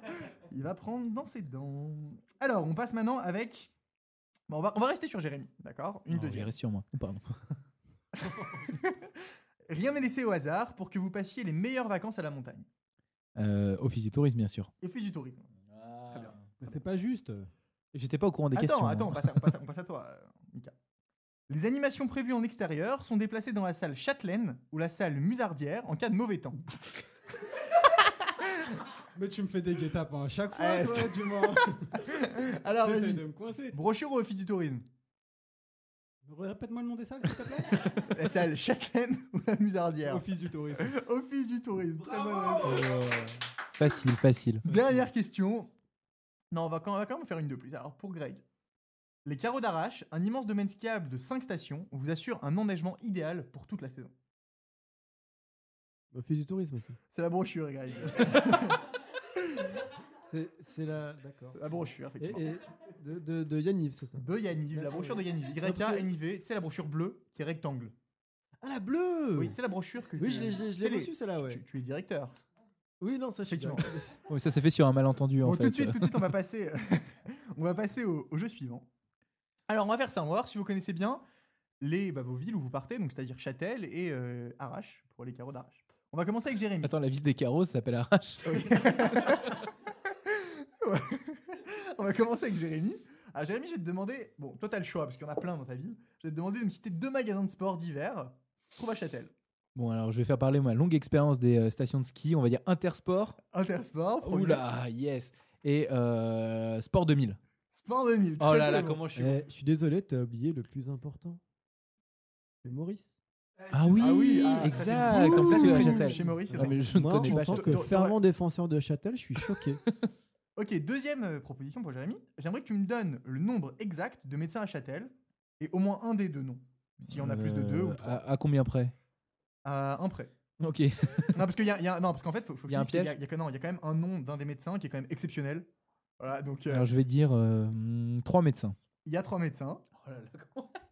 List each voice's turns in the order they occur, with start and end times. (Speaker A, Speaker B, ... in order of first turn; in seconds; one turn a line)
Speaker A: 0.5-3.7
Speaker A: 4.5-6.5
Speaker B: 6.1-7.4
Speaker A: 8.6-9.1
Speaker A: 9.7-12.7
Speaker B: 13.4-14.7
Speaker A: 14.8-15.5
Speaker B: 15.7-16.5
Speaker C: 16.6-17.5
Speaker B: 17.9-19.3
Speaker A: 18.5-20.7
Speaker A: 21.5-26.6
Speaker C: 29.1-31.9
Speaker A: 30.5-34.9
Speaker C: 32.8-33.8
Speaker C: 36.2-38.1
Speaker A: 38.1-42.9
Speaker C: 40.0-40.9
Speaker B: 42.7-43.2
Speaker B: 43.8-44.6
Speaker A: 44.6-45.7
Speaker A: 46.5-48.4
Speaker A: 49.2-54.1
Speaker D: 56.1-57.0
Speaker A: 57.1-58.8
Speaker D: 60.3-61.6
Speaker A: 61.5-62.4
Speaker D: 62.2-66.1
Speaker A: 64.2-67.9
Speaker D: 68.6-69.6
Speaker A: 69.3-72.4
Speaker D: 70.2-71.6
Speaker D: 73.0-74.2
Speaker A: 73.5-73.9
Speaker B: 74.3-76.2
Speaker A: 75.4-78.9
Speaker A: 79.7-81.2
Speaker A: 81.8-86.9
Speaker B: 86.8-88.5
Speaker A: 88.4-89.6
Speaker A: 90.3-99.3
Speaker B: 99.8-103.4
Speaker A: 103.5-104.6
Speaker B: 104.2-107.4
Speaker A: 107.7-109.0
Speaker B: 108.4-109.4
Speaker D: 109.1-111.4
Speaker D: 112.6-113.1
Speaker B: 113.7-117.9
Speaker A: 113.9-118.2
Speaker D: 114.6-119.8
Speaker A: 120.6-128.2
Speaker B: 127.0-128.9
Speaker A: 129.6-130.3
Speaker B: 130.6-131.4
Speaker A: 131.3-135.7
Speaker B: 132.7-133.1
Speaker A: 136.2-136.9
Speaker B: 136.7-138.8
Speaker A: 139.1-139.8
Speaker B: 140.0-140.7